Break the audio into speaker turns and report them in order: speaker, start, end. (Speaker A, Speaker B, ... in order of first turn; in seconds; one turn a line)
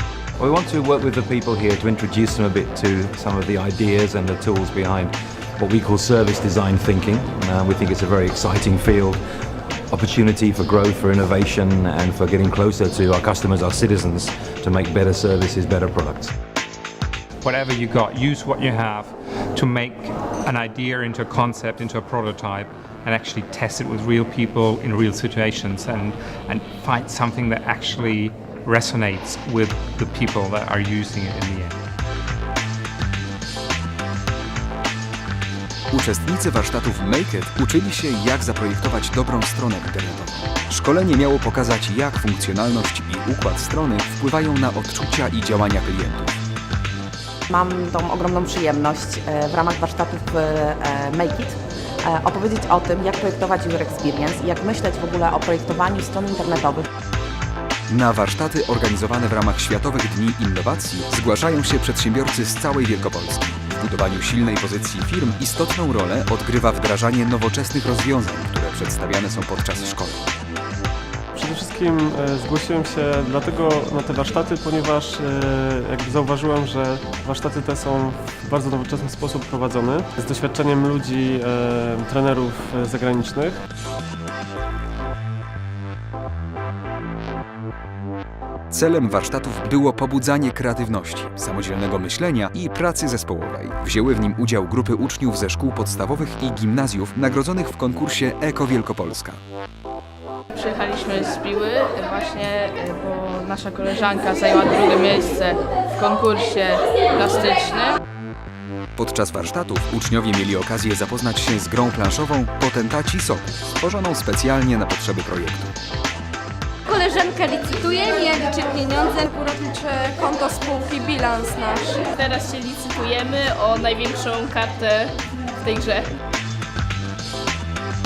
Speaker A: 0.4-9.2
Speaker A: 9.9-16.3
Speaker B: 17.4-31.8
Speaker C: 35.9-46.4
Speaker D: 47.5-56.9
Speaker C: 57.9-70.3
Speaker E: 71.3-83.6
Speaker C: 88.7-99.4
Speaker F: 100.5-108.0
Speaker C: 109.0-115.7
Speaker G: 116.9-122.0
Speaker F: 122.1-126.2